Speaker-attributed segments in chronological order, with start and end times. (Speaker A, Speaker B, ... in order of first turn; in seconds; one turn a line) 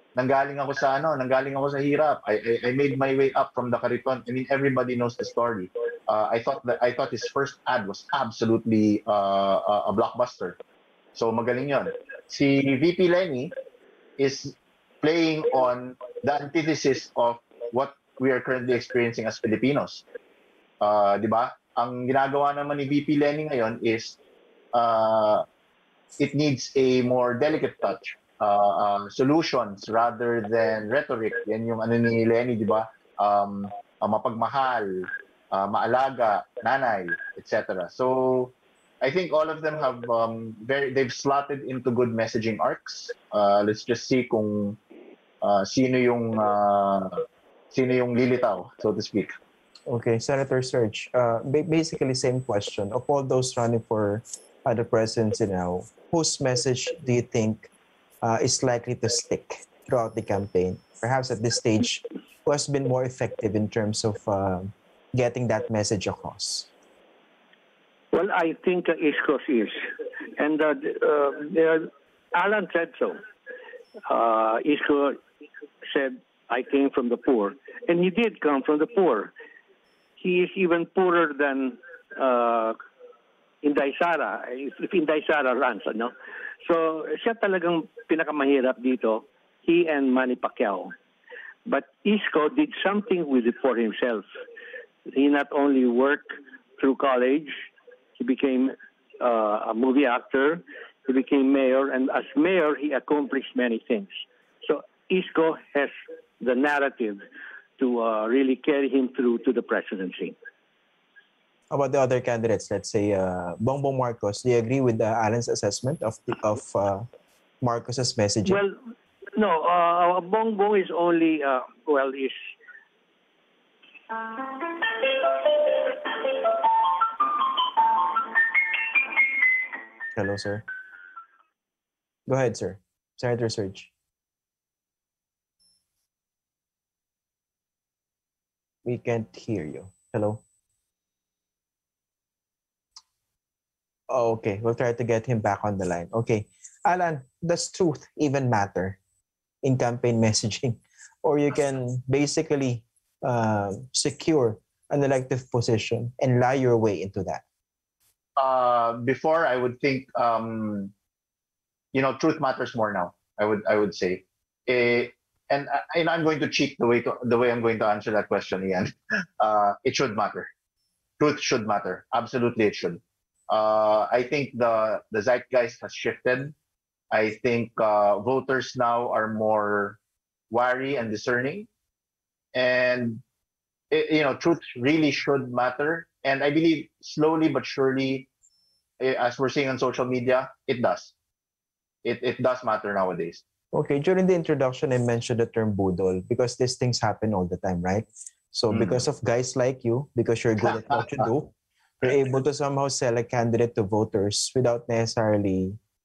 Speaker A: 0.2-10.6
Speaker A: 11.2-13.5
Speaker A: 14.2-20.0
Speaker A: 20.8-24.2
Speaker A: 24.7-25.4
Speaker A: 26.2-44.8
Speaker A: 45.4-49.3
Speaker B: 49.9-57.7
Speaker B: 58.2-66.7
Speaker C: 68.1-73.2
Speaker C: 74.1-75.2
Speaker C: 75.8-79.3
Speaker C: 80.2-82.8
Speaker C: 83.6-86.1
Speaker C: 86.6-90.9
Speaker C: 91.7-94.2
Speaker C: 95.1-97.5
Speaker C: 98.2-107.2
Speaker C: 107.8-110.4
Speaker B: 111.7-117.1
Speaker B: 117.6-118.6
Speaker C: 118.5-118.8
Speaker C: 119.4-122.5
Speaker C: 124.4-125.9
Speaker B: 130.1-130.6
Speaker B: 132.3-133.9
Speaker B: 138.8-140.4
Speaker B: 144.1-149.0
Speaker B: 149.6-157.4
Speaker A: 158.4-160.9
Speaker A: 161.9-170.5
Speaker A: 171.2-176.6
Speaker A: 177.1-180.0
Speaker A: 180.5-181.7
Speaker A: 182.5-183.2
Speaker A: 183.9-188.3
Speaker A: 189.0-191.1
Speaker A: 192.0-193.4
Speaker B: 193.7-205.8
Speaker A: 198.7-199.0